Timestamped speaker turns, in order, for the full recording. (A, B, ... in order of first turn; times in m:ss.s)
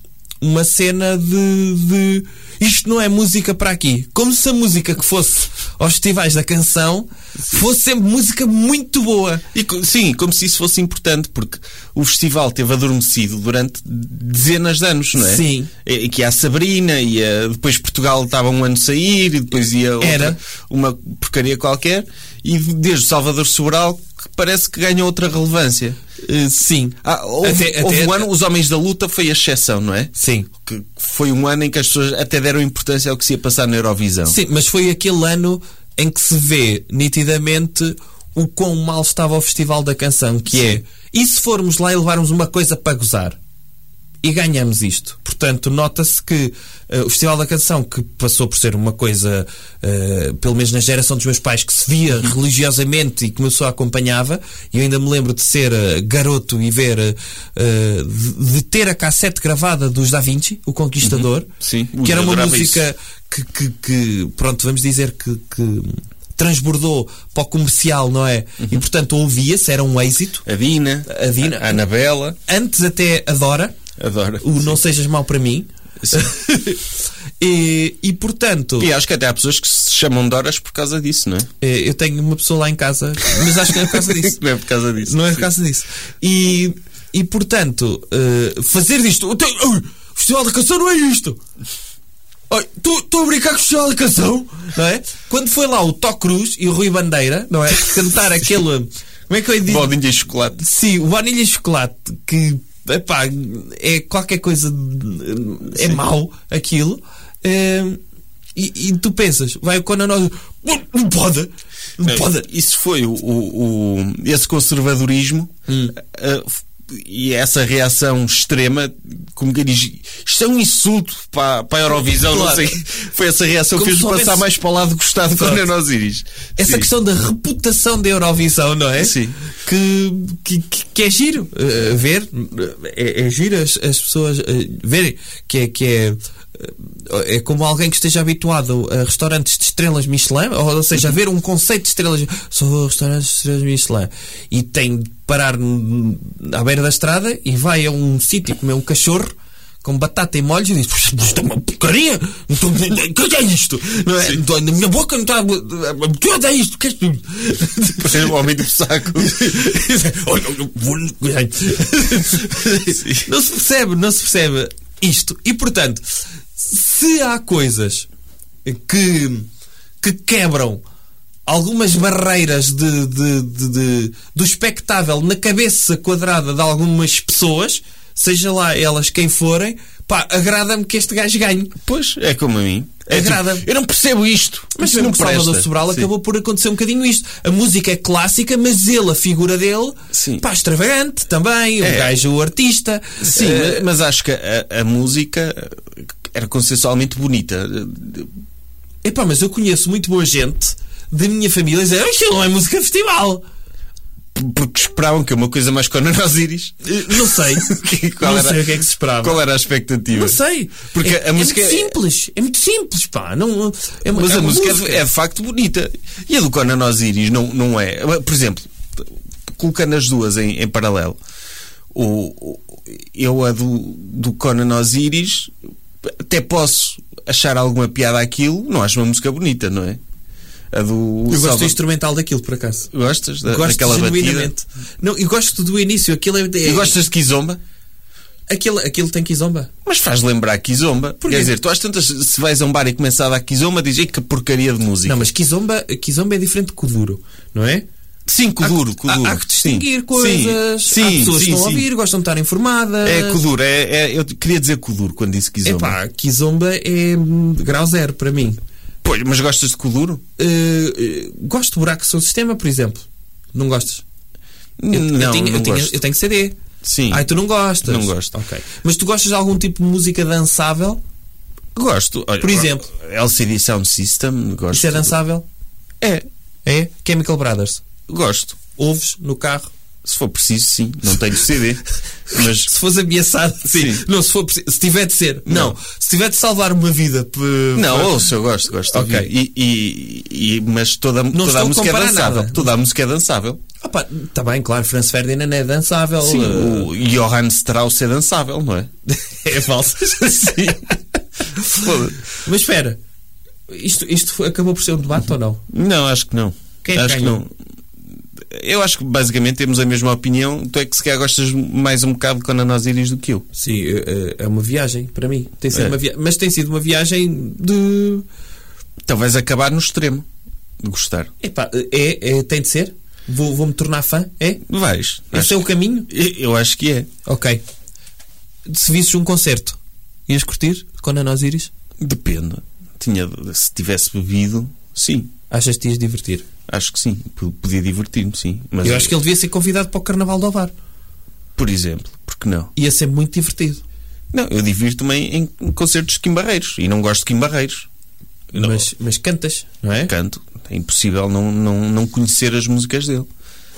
0:00.4-0:09.4 A
0:09.5-0:26.0 B
0:15.2-0:15.7 A
0:20.0-0:20.4 A
0:26.2-0:28.3 A
0:27.0-0:30.1 B
0:30.1-0:30.5 A
0:30.6-0:34.4 B
0:34.2-0:43.4 A
0:40.5-0:40.8 B
0:44.2-1:10.4 A
1:01.0-1:02.8 B
1:10.4-1:12.4 B
1:11.0-1:11.8 A
1:12.4-1:13.7 A
1:14.0-1:14.8 B
1:14.4-1:16.9 A
1:17.4-1:18.9 A
1:18.8-1:21.5 B
1:21.6-1:24.4 A
1:23.5-1:25.5 B
1:25.0-1:31.4 A
1:32.5-1:39.9 A
1:39.6-1:40.6 B
1:40.5-1:48.0 A
1:48.5-1:52.5 A
1:52.0-2:06.9 B
1:55.7-1:56.0 A
2:02.2-2:02.8 A
2:03.7-2:04.5 A
2:05.3-2:05.6 A
2:06.6-2:38.4 A
2:09.0-2:09.4 B
2:38.0-2:39.5 B
2:39.1-2:46.0 A
2:43.0-2:43.3 B
2:46.6-2:48.1 A
2:48.6-2:49.5 A
2:50.0-2:50.8 A
2:51.4-3:01.7 A
3:01.8-3:06.1 B
3:03.1-3:03.7 A
3:04.7-3:13.9 A
3:10.1-3:10.4 B
3:11.8-3:12.2 B
3:13.2-3:18.3 B
3:19.0-3:23.4 A
3:24.3-3:31.9 B
3:26.8-3:27.6 A
3:28.2-3:29.4 A
3:30.1-3:35.0 A
3:34.1-3:38.7 B
3:39.6-3:41.2 B
3:41.9-3:45.5 B
3:46.0-3:50.0 B
3:50.7-3:51.8 B
3:51.3-3:52.9 A
3:52.9-3:54.5 B
3:53.4-3:57.0 A
3:56.6-3:57.6 B
3:58.5-3:59.7 A
3:59.8-4:05.3 B
4:01.2-4:01.5 A
4:05.0-4:07.8 A
4:08.3-4:11.8 B
4:08.6-4:13.4 A
4:13.0-4:16.0 B
4:15.6-4:18.6 A
4:19.0-4:20.2 B
4:20.4-4:24.0 A
4:24.8-4:26.0 B
4:24.9-4:26.6 A
4:26.8-4:28.3 B
4:27.1-4:31.0 A
4:31.7-4:35.1 B
4:32.4-4:32.8 A
4:34.7-4:35.4 A
4:36.0-4:36.3 B
4:36.6-4:37.8 A
4:38.1-4:38.6 B
4:38.7-4:39.7 A
4:40.0-4:42.7 B
4:42.4-4:49.3 A
4:43.7-4:44.0 B
4:45.4-4:45.8 B
4:47.7-4:53.6 B
4:51.3-4:52.7 A
4:53.8-4:56.9 A
4:56.2-4:58.9 B
4:59.1-5:00.9 A
5:01.7-5:02.3 B
5:02.3-5:03.0 A
5:03.7-5:05.6 A
5:05.7-5:07.5 B
5:06.8-5:07.4 A
5:08.5-5:13.4 B
5:13.5-5:18.2 A
5:15.7-5:16.0 B
5:19.1-5:20.2 B
5:20.8-5:21.3 B
5:21.4-5:24.6 A
5:24.7-5:27.1 B
5:25.3-5:26.1 A
5:27.2-5:27.6 A
5:28.6-5:31.7 A
5:32.0-5:35.3 B
5:35.5-5:36.5 A
5:36.7-5:39.1 B
5:38.8-5:40.7 A
5:41.6-5:42.7 B
5:42.8-5:43.8 A
5:44.3-5:47.9 B
5:48.5-5:48.8 B
5:48.5-5:50.1 A
5:50.1-5:53.3 B